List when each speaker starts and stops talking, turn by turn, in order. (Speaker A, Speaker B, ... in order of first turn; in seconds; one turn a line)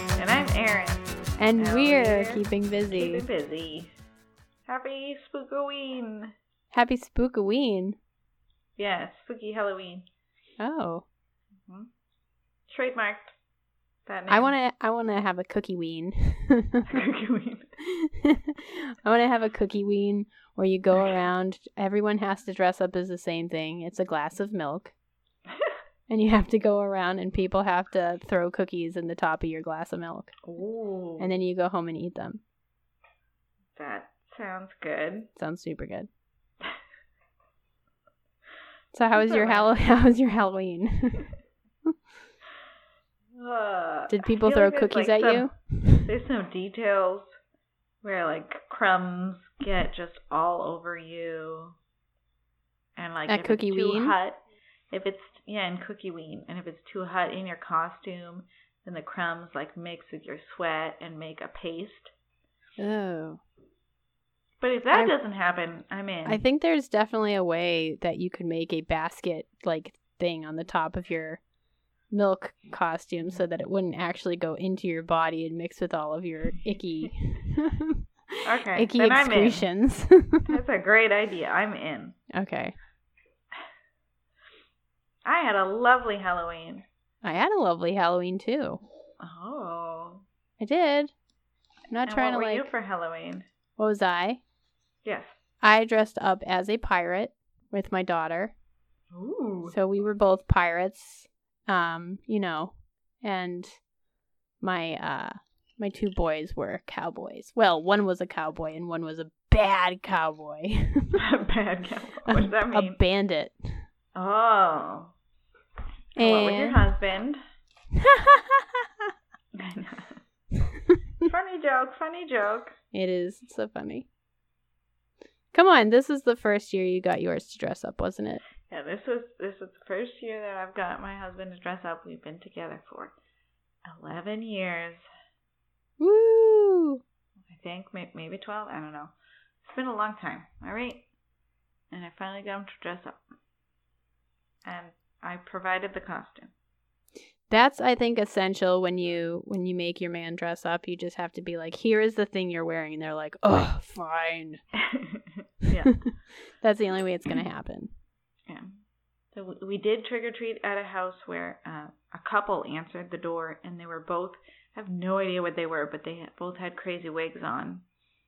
Speaker A: 0.2-4.0
Speaker B: 1.4-3.3
Speaker A: 4.7-6.3
Speaker B: 6.7-8.0
Speaker A: 8.8-10.1
Speaker B: 10.6-11.1
Speaker A: 12.7-13.3
Speaker A: 14.1-14.5
Speaker B: 14.3-17.0
Speaker A: 16.9-17.8
Speaker B: 17.8-24.9
Speaker B: 26.1-30.3
Speaker A: 30.4-31.3
Speaker B: 31.2-32.4
Speaker A: 33.8-35.3
Speaker B: 35.4-36.1
Speaker B: 38.9-41.3
Speaker A: 39.1-39.7
Speaker A: 43.4-47.3
Speaker B: 44.1-46.1
Speaker A: 48.0-51.8
Speaker A: 53.0-62.1
Speaker B: 53.3-54.1
Speaker B: 62.8-63.4
Speaker A: 64.6-66.4
Speaker B: 66.2-71.4
Speaker B: 72.1-80.5
Speaker A: 78.4-79.7
Speaker A: 80.5-82.2
Speaker B: 82.3-82.8
Speaker A: 85.2-86.8
Speaker B: 87.2-88.8
Speaker A: 89.2-90.2
Speaker B: 90.6-91.1
Speaker B: 91.9-92.7
Speaker A: 92.0-93.5
Speaker B: 93.8-94.4
Speaker A: 95.0-95.3
Speaker B: 95.6-98.5
Speaker A: 99.1-99.8
Speaker B: 99.7-103.8
Speaker B: 104.6-111.2
Speaker A: 111.2-113.0
Speaker B: 112.3-113.8
Speaker A: 114.2-115.1
Speaker A: 116.2-117.4
Speaker B: 116.2-116.8
Speaker B: 117.9-119.1
Speaker A: 119.5-120.2
Speaker B: 120.6-121.0
Speaker A: 121.2-122.8
Speaker B: 122.9-124.1
Speaker B: 125.5-128.4
Speaker A: 128.7-133.2
Speaker A: 133.9-135.0
Speaker B: 136.0-137.0
Speaker A: 137.5-139.1
Speaker A: 139.6-141.1
Speaker A: 141.9-143.2
Speaker A: 144.7-146.5
Speaker B: 147.5-154.6
Speaker A: 154.7-156.0
Speaker B: 156.6-157.9
Speaker A: 158.5-158.8
Speaker A: 159.3-167.8